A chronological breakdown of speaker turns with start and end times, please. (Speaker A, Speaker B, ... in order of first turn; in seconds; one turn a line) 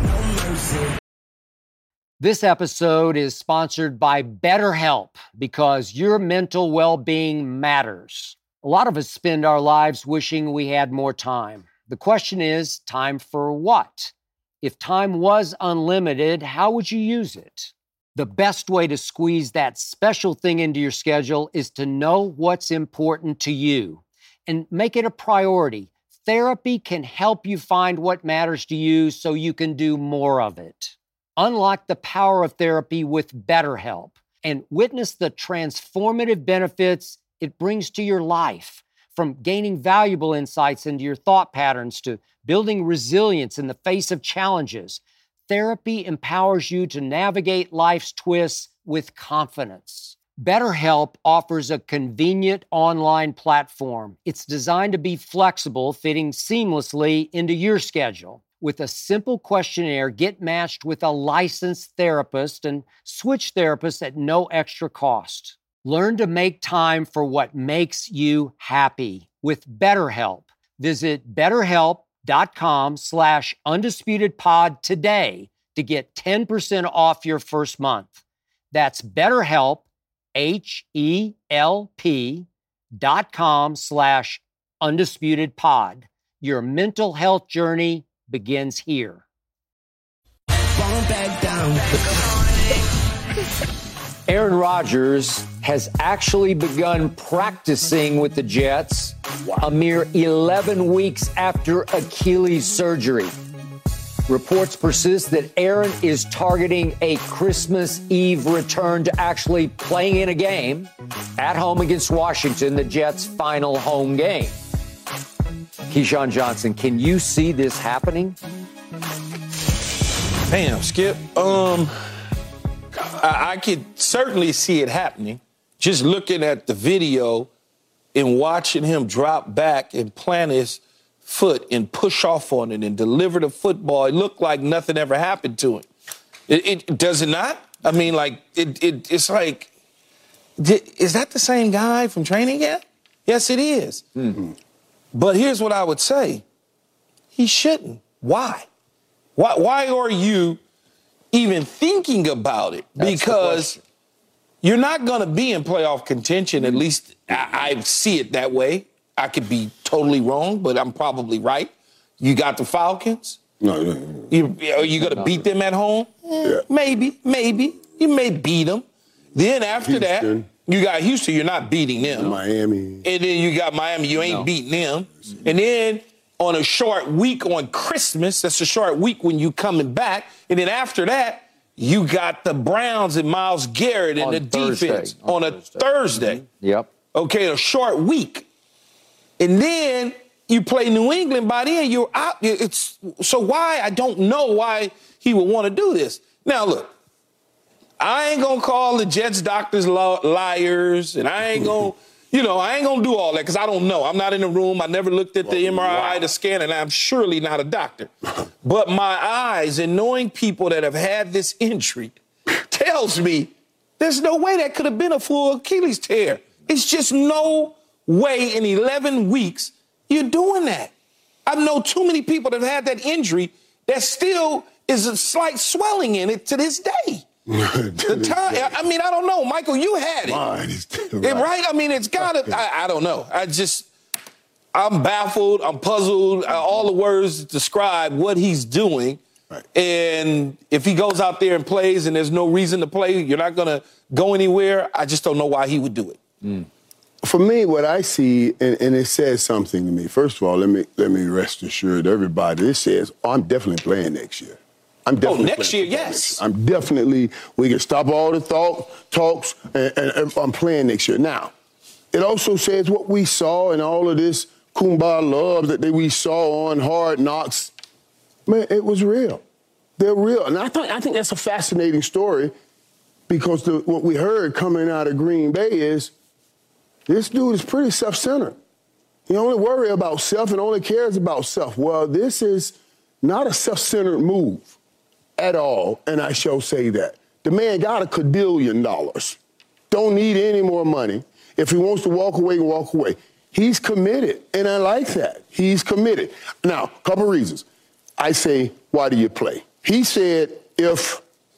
Speaker A: 2.2-78.1
Speaker A: 78.7-82.5
Speaker A: 83.0-89.2
Speaker A: 94.3-103.3
Speaker A: 104.3-114.6
Speaker A: 115.9-118.4
Speaker B: 120.5-121.9
Speaker B: 122.9-127.5
Speaker B: 128.1-135.9
Speaker B: 136.5-139.7
Speaker B: 140.6-144.1
Speaker B: 145.1-146.4
Speaker B: 147.3-148.7
Speaker B: 149.4-150.6
Speaker B: 151.3-153.8
Speaker A: 153.0-153.8
Speaker B: 154.6-163.4
Speaker C: 163.6-164.3
Speaker B: 164.3-172.4
Speaker C: 169.7-170.5
Speaker C: 172.1-173.1
Speaker B: 173.0-186.4
Speaker A: 184.2-186.9
Speaker B: 187.1-188.5
Speaker B: 189.4-196.9
Speaker B: 198.0-208.1
Speaker C: 205.4-206.3
Speaker B: 208.6-220.9
Speaker B: 221.5-227.2
Speaker C: 227.5-228.7
Speaker B: 228.1-230.4
Speaker C: 230.2-231.5
Speaker B: 231.2-233.9
Speaker B: 234.7-239.2
Speaker B: 239.7-246.2
Speaker C: 247.2-261.5
Speaker B: 255.2-256.4
Speaker C: 262.1-267.7
Speaker C: 268.5-269.4
Speaker C: 270.0-272.5
Speaker C: 273.3-276.1
Speaker C: 277.1-278.6
Speaker C: 279.3-284.8
Speaker C: 285.4-289.4
Speaker C: 289.9-297.7
Speaker C: 298.2-301.2